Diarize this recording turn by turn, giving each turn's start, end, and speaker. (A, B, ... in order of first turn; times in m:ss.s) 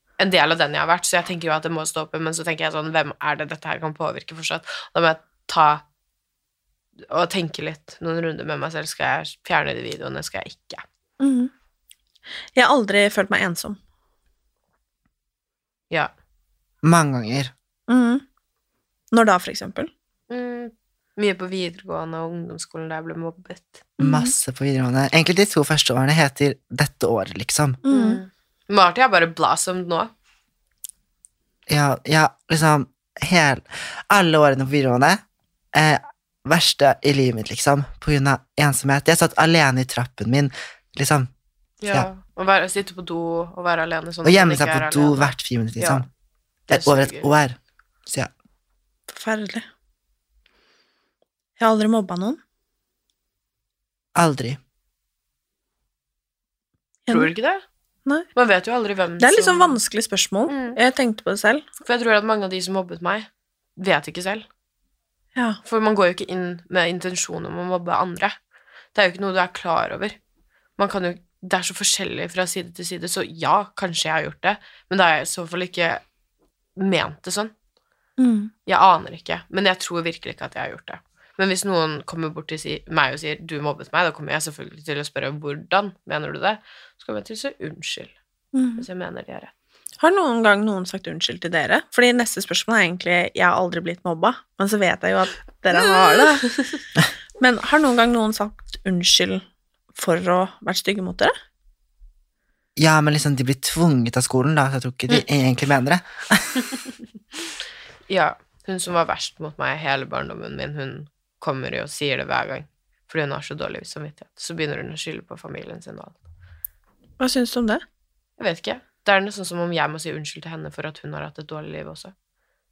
0:00.2-0:05.8 A
0:07.1-0:10.8 A
0:11.2-0:11.5 B
0:12.6-0:13.8 B
0:16.8-0:17.5 C
0:17.9-0:18.2 B
0:19.1-0:19.9 B
0:20.3-0:23.9 A
0:24.0-0:24.3 B
0:24.0-0:27.8 C
0:27.8-0:28.2 B
0:27.9-0:30.1 A
0:31.7-0:35.2 C
0:35.7-0:41.3 C
0:41.8-0:46.1 A
0:44.2-0:46.1 C
0:46.7-0:47.3 A
0:46.7-0:48.3 C
0:49.1-0:49.7 B
0:51.6-0:52.4 B
0:54.2-0:54.6 C
0:57.1-0:57.6 A
0:58.4-0:59.8 A
0:59.2-1:01.6 B
1:00.5-1:00.8 A
1:01.8-1:04.5 A
1:05.6-1:08.4 A
1:08.9-1:10.2 A
1:10.8-1:16.0 A
1:16.8-1:17.5 A
1:18.2-1:18.5 B
1:18.7-1:28.1 A
1:28.6-1:28.8 B
1:28.8-1:29.5 A
1:30.0-1:36.5 B
1:35.8-1:36.2 A
1:37.4-1:39.4 B
1:40.0-1:41.3 B
1:42.8-1:46.6 C
1:48.1-1:56.2 A
1:57.2-1:57.8 B
1:58.4-2:02.1 A